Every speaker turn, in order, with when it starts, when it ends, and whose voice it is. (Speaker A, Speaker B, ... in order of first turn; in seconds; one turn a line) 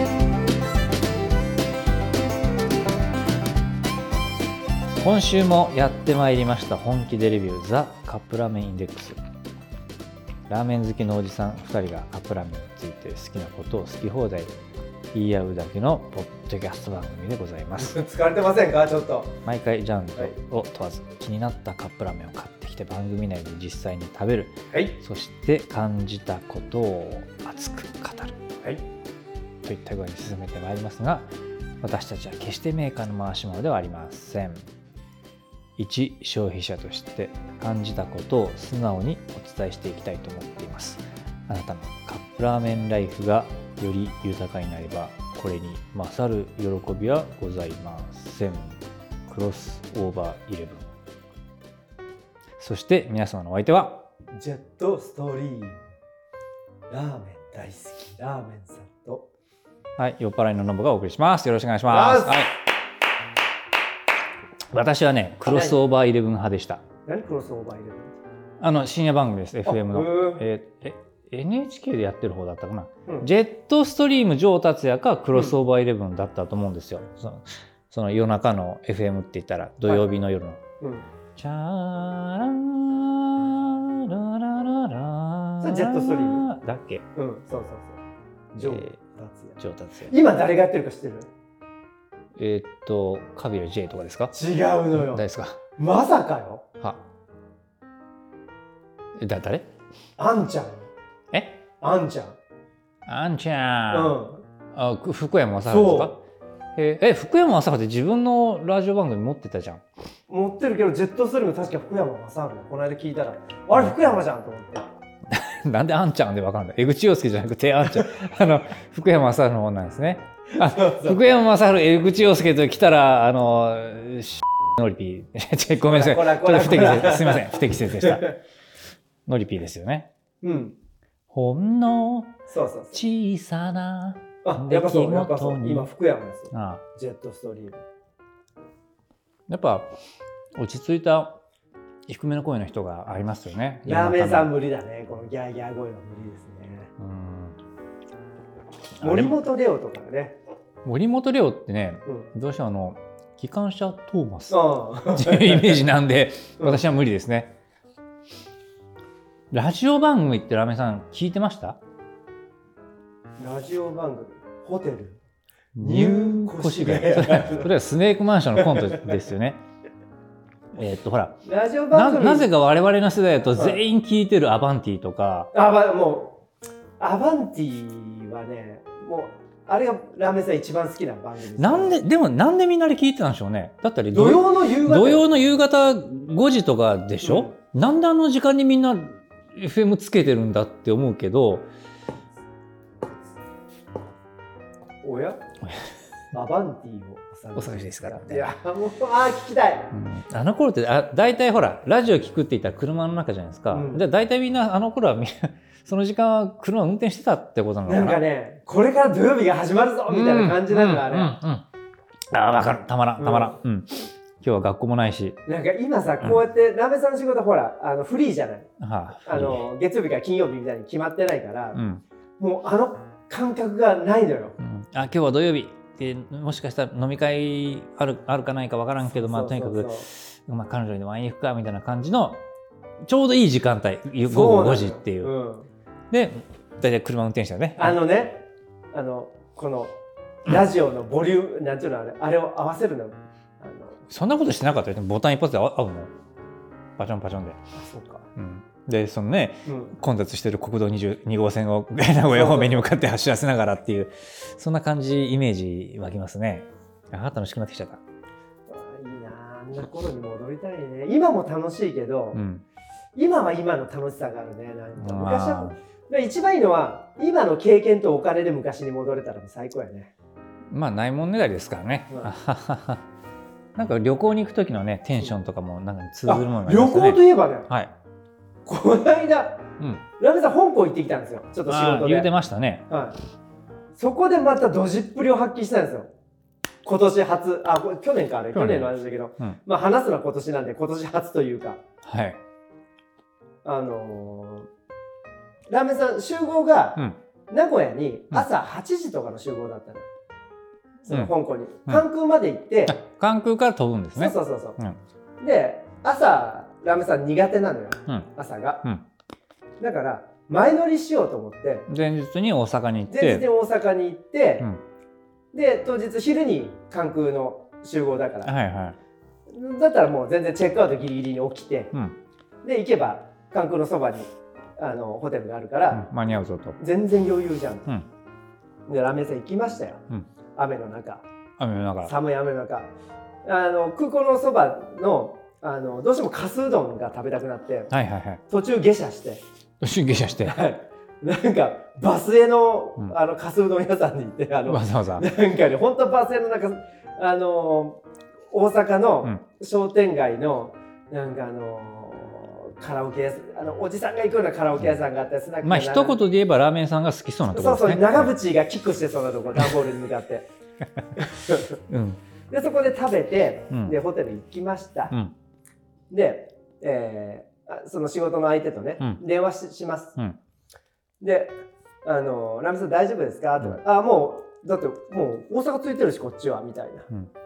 Speaker A: 5.0-9.2
Speaker A: 10.5-14.5
Speaker A: 15.1-18.0
Speaker B: 17.8-19.3
Speaker A: 19.4-28.4
Speaker A: 29.6-31.3
Speaker A: 31.8-34.7
Speaker A: 35.8-50.9
Speaker A: 52.6-54.1
Speaker B: 54.3-55.8
Speaker B: 56.9-59.2
Speaker A: 60.0-62.6
Speaker B: 61.9-62.5
Speaker A: 64.7-66.8
Speaker B: 65.5-65.8
Speaker B: 67.0-68.2
Speaker A: 68.6-80.6
Speaker B: 69.6-70.4
Speaker B: 79.8-80.1
Speaker B: 80.8-81.1
Speaker A: 81.3-87.0
Speaker B: 85.6-86.5
Speaker B: 87.2-88.0
Speaker B: 88.5-91.3
Speaker A: 88.6-88.9
Speaker A: 89.6-90.1
Speaker A: 92.4-94.3
Speaker B: 94.3-95.2
Speaker A: 94.9-95.6
Speaker B: 95.8-96.6
Speaker A: 99.2-99.7
Speaker B: 100.2-100.9
Speaker A: 101.3-101.6
Speaker B: 101.8-102.4
Speaker A: 103.0-104.1
Speaker B: 103.9-104.4
Speaker A: 104.7-106.2
Speaker B: 105.7-106.2
Speaker A: 106.7-109.8
Speaker B: 110.3-114.9
Speaker A: 115.3-128.3
Speaker B: 120.5-121.3
Speaker B: 125.8-128.4
Speaker A: 129.2-130.1
Speaker B: 130.4-130.8
Speaker A: 131.3-132.3
Speaker B: 132.5-133.0
Speaker A: 132.9-135.9
Speaker B: 134.4-137.8
Speaker A: 136.5-136.8
Speaker A: 139.5-139.9
Speaker A: 140.5-141.4
Speaker A: 142.1-144.5
Speaker B: 143.8-146.9
Speaker A: 147.0-147.6
Speaker A: 149.0-149.4
Speaker B: 149.0-150.4
Speaker A: 150.8-157.5
Speaker B: 154.5-155.8
Speaker A: 159.5-161.8
Speaker B: 163.4-165.2
Speaker A: 165.7-169.6
Speaker B: 165.8-167.7
Speaker B: 168.6-169.1
Speaker A: 170.7-175.5
Speaker B: 171.4-172.5
Speaker B: 173.5-173.8
Speaker B: 175.5-176.4
Speaker B: 177.0-182.0
Speaker A: 181.6-191.7
Speaker B: 184.1-185.2
Speaker B: 187.2-187.6
Speaker B: 195.0-195.4
Speaker B: 196.3-199.9
Speaker A: 197.5-198.5
Speaker A: 199.9-208.2
Speaker B: 203.7-204.0
Speaker B: 207.8-211.4
Speaker A: 210.1-211.6
Speaker A: 212.3-215.4
Speaker B: 213.2-213.6
Speaker B: 215.4-218.7
Speaker A: 218.8-219.6
Speaker B: 219.2-221.8
Speaker A: 221.7-222.0
Speaker B: 222.4-224.5
Speaker A: 224.6-232.4
Speaker B: 229.1-230.1
Speaker A: 233.0-235.3
Speaker B: 234.2-235.7
Speaker A: 236.1-238.0
Speaker B: 237.8-239.9
Speaker B: 240.4-244.0
Speaker A: 244.1-246.1
Speaker A: 247.0-247.6
Speaker B: 247.7-248.2
Speaker A: 248.3-258.0
Speaker B: 249.7-249.9
Speaker B: 252.3-252.9
Speaker B: 258.7-262.4
Speaker A: 262.3-262.6
Speaker B: 263.1-270.1
Speaker A: 265.0-265.8
Speaker A: 270.7-273.0
Speaker A: 273.8-277.9
Speaker B: 276.2-277.7
Speaker B: 278.6-279.6
Speaker B: 280.2-282.3
Speaker A: 281.7-282.8
Speaker B: 282.9-283.1
Speaker B: 283.9-286.1
Speaker B: 286.8-291.8
Speaker A: 288.5-289.6
Speaker A: 292.0-292.4
Speaker B: 293.6-294.7
Speaker B: 295.7-300.1
Speaker B: 301.1-303.0
Speaker A: 301.1-301.3
Speaker A: 302.9-305.0
Speaker B: 304.1-304.8
Speaker B: 305.4-308.8
Speaker B: 309.8-311.9
Speaker A: 311.9-313.4
Speaker B: 313.1-314.7
Speaker B: 315.5-318.5
Speaker A: 318.4-319.0
Speaker B: 319.5-321.9
Speaker B: 322.6-326.0
Speaker A: 325.9-326.8
Speaker B: 326.8-327.9
Speaker B: 328.9-330.0
Speaker B: 330.5-331.2
Speaker A: 331.6-332.1
Speaker B: 332.0-332.9
Speaker B: 333.4-337.9
Speaker A: 337.9-338.4
Speaker B: 338.5-339.4
Speaker A: 339.8-340.6
Speaker B: 340.4-356.2
Speaker A: 344.6-345.3
Speaker A: 355.6-358.3
Speaker B: 357.5-360.5
Speaker B: 361.1-361.8
Speaker A: 361.9-362.2
Speaker B: 362.5-365.1
Speaker A: 363.7-364.0
Speaker B: 366.1-370.1
Speaker B: 371.2-377.1